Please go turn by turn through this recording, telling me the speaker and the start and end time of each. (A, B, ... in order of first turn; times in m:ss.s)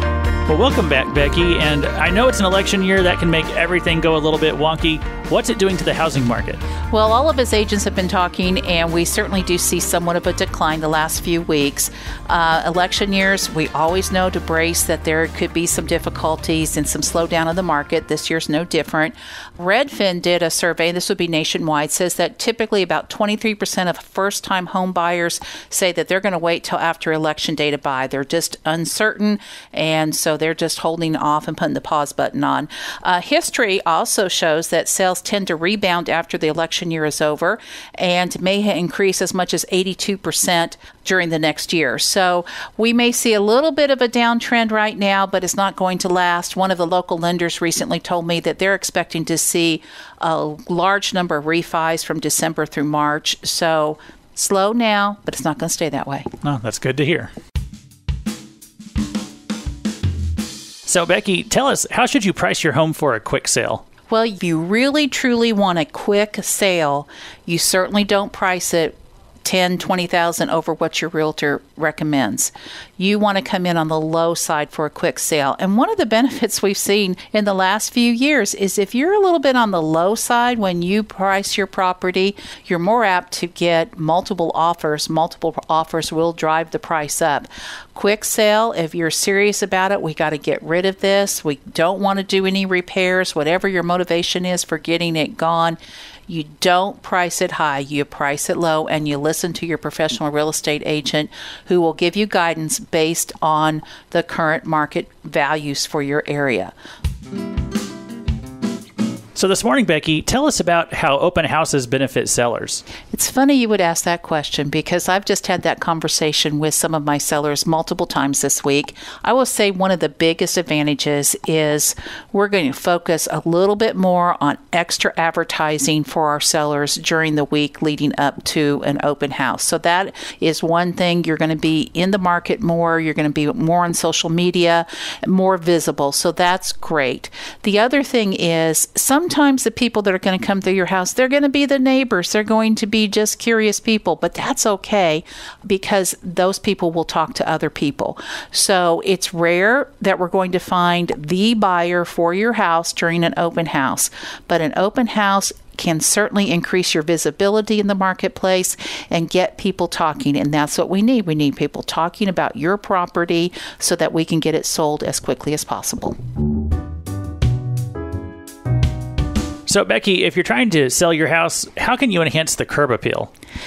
0:00.5-0:06.6 A
0:06.9-0:56.3 B
0:56.4-0:57.3 A
1:00.9-1:03.8 A
1:04.1-1:46.7 B
1:49.4-1:52.8 A
1:53.1-2:46.2 B
2:49.7-2:53.3 A